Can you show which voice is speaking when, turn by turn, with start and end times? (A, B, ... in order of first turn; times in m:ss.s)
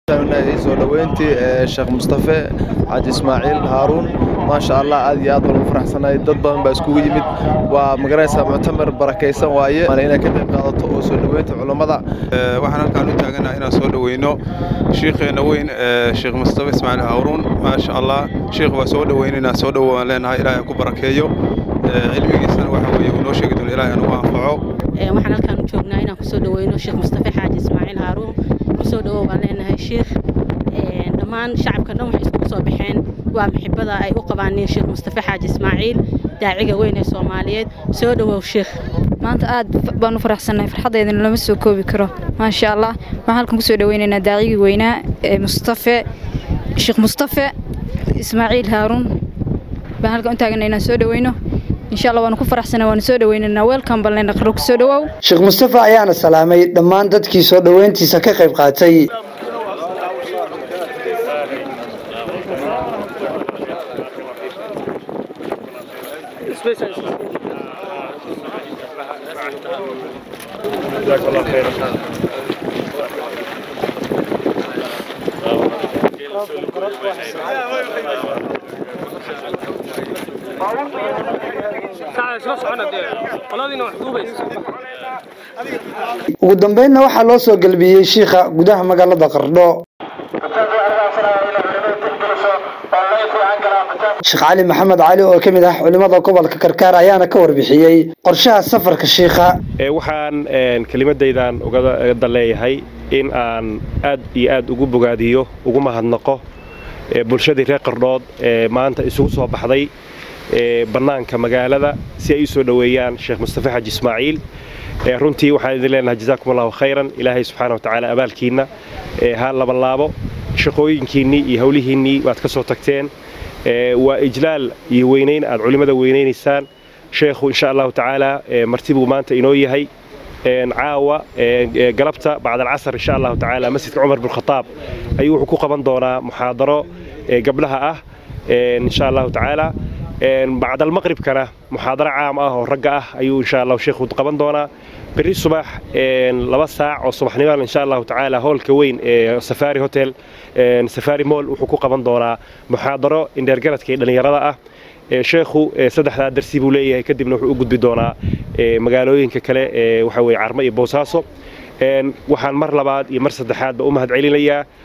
0:00.1-0:12.0 A
0:12.4-0:14.4 B
0:14.9-0:21.3 B
0:21.9-0:24.6 B
0:25.0-0:30.1 C
0:30.7-0:38.7 C
0:39.2-0:46.0 D
0:46.8-0:47.5 D
0:48.2-0:49.1 D
0:50.0-0:51.4 D
0:51.9-0:55.1 D
0:55.2-0:59.1 E
1:11.0-1:11.9 F
1:26.4-1:29.8 E
1:34.2-1:39.5 E
1:39.8-1:46.4 F
1:47.1-1:49.9 F
1:50.5-1:54.4 F
1:55.1-1:58.7 F
1:59.2-2:03.1 F
2:03.7-2:09.9 F
2:10.5-2:14.7 F
2:15.2-2:34.6 F
2:35.1-2:41.3 F
2:41.8-2:44.6 F